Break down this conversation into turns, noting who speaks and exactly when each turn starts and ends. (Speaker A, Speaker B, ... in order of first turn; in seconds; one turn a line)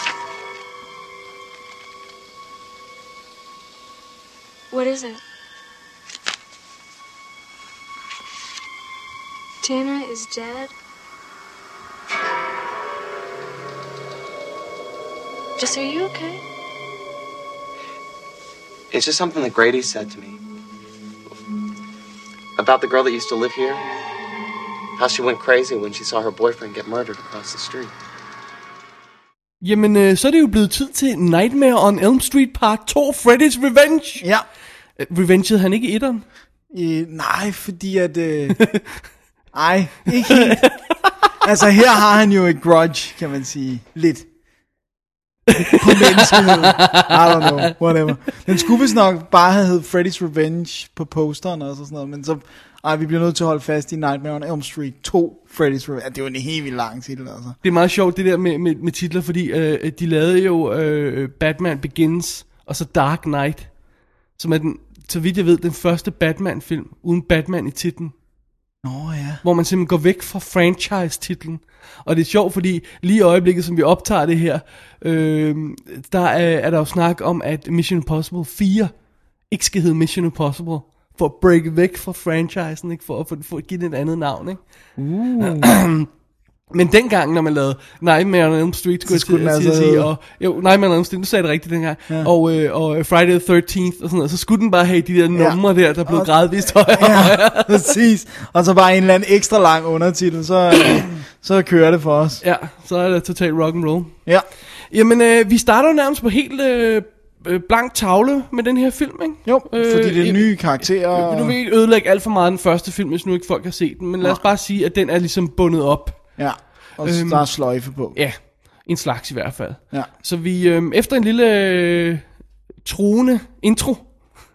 Speaker A: 4.7-5.2
Speaker A: 9.6-10.7
Speaker A: 15.6-16.4
Speaker B: 18.9-20.4
Speaker B: 22.6-23.9
Speaker B: 25.0-27.9
Speaker C: 29.6-34.2
Speaker C: 35.0-36.2
Speaker D: 36.7-38.7
Speaker D: 39.5-40.7
Speaker C: 40.2-41.1
Speaker D: 41.4-44.3
Speaker C: 45.5-47.7
Speaker D: 45.8-57.6
Speaker C: 57.6-63.7
Speaker C: 64.4-68.1
Speaker D: 68.8-69.4
Speaker C: 69.4-78.9
Speaker C: 79.5-84.6
Speaker D: 85.0-85.7
Speaker C: 85.4-86.1
Speaker C: 86.7-97.9
Speaker D: 89.1-90.1
Speaker D: 95.3-102.4
Speaker C: 102.4-104.1
Speaker C: 104.9-116.3
Speaker D: 109.5-111.6
Speaker D: 116.4-118.2
Speaker C: 117.0-117.5
Speaker C: 118.1-122.2
Speaker C: 122.8-124.1